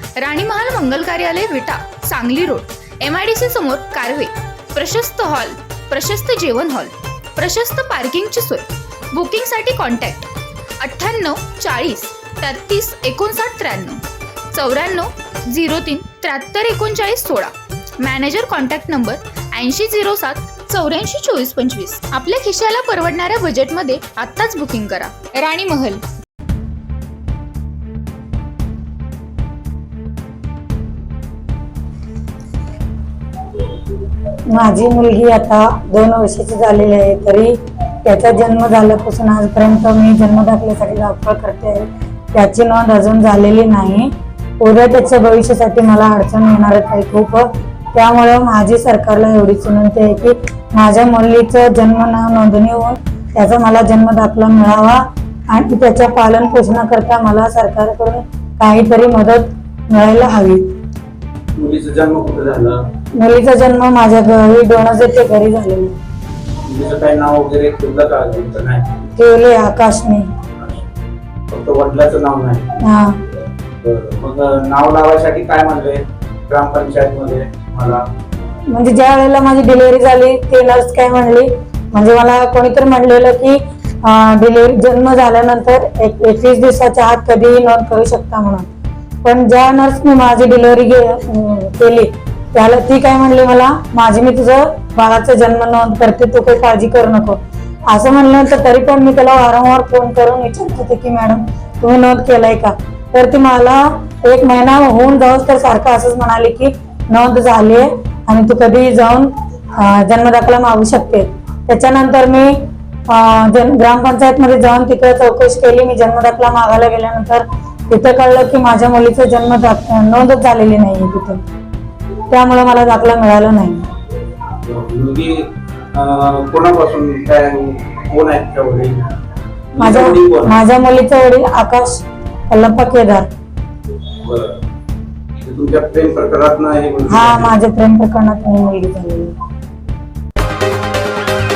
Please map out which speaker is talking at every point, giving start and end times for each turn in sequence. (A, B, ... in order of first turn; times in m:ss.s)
0:00.2-0:26.0 A
0:34.5-1:00.6 B
1:01.6-1:02.8 C
1:03.2-1:06.0 B
1:06.6-1:08.9 C
1:09.2-1:10.3 B
1:11.5-1:12.7 C
1:12.8-1:13.2 B
1:13.8-1:18.0 C
1:18.7-1:28.7 B
1:29.2-1:52.6 B
1:53.1-2:01.4 B
2:02.3-2:03.9 B
2:04.6-2:09.0 C
2:09.7-2:10.6 C
2:09.8-2:13.3 B
2:14.2-2:14.6 C
2:15.4-2:17.6 C
2:17.1-2:19.3 B